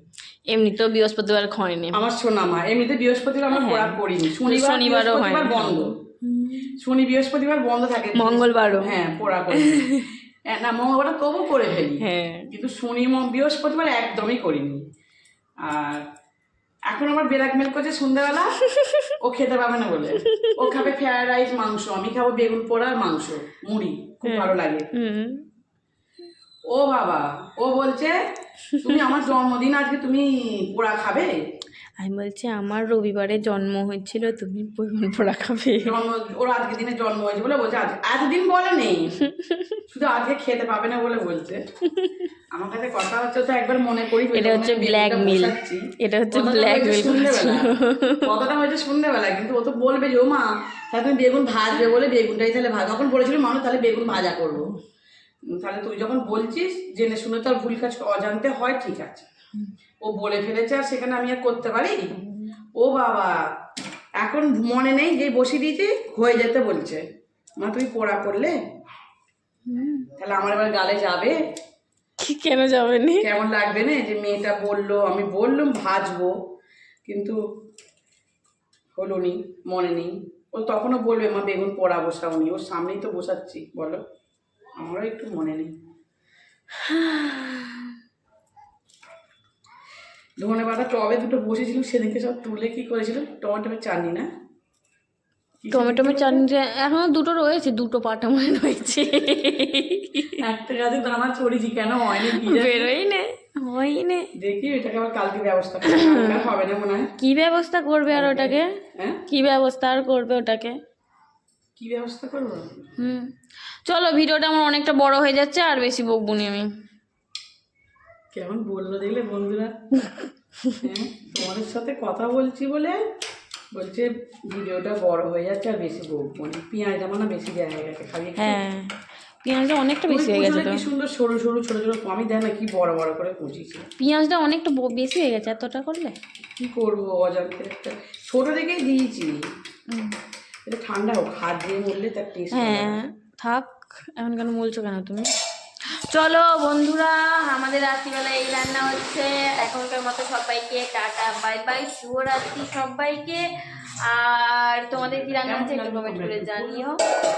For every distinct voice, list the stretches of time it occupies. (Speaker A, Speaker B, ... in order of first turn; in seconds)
Speaker A: 0.5-2.0, 3.5-6.8, 8.2-8.9, 9.5-10.1, 12.0-12.5, 18.7-19.1, 20.3-20.9, 24.2-25.4, 28.7-29.1, 32.0-36.0, 39.2-39.8, 41.9-42.2, 44.3-48.3, 62.2-62.5, 69.7-70.1, 72.2-73.3, 86.8-88.0, 95.7-100.4, 102.2-104.3, 105.8-106.5, 107.2-108.7, 109.3-110.8, 113.0-113.3, 113.9-116.7, 128.4-128.9, 129.4-130.9, 134.0-136.2, 139.9-140.2, 142.5-145.3, 146.1-153.4, 154.1-157.0
Speaker B: 1.9-6.0, 6.8-14.8, 15.6-16.0, 16.9-18.6, 19.2-24.9, 26.7-28.2, 28.8-31.3, 35.8-39.2, 39.9-41.6, 42.5-47.7, 48.2-54.7, 55.5-59.3, 60.0-62.0, 62.8-63.4, 64.2-67.0, 67.6-68.6, 70.2-71.4, 73.2-76.3, 77.0-77.4, 79.0-84.0, 84.8-85.7, 90.4-94.3, 95.6-96.5, 100.4-102.9, 104.4-107.1, 108.1-109.2, 111.8-112.8, 118.3-119.7, 120.8-123.0, 123.7-128.6, 130.1-133.8, 136.6-139.4, 140.7-143.0, 155.4-156.9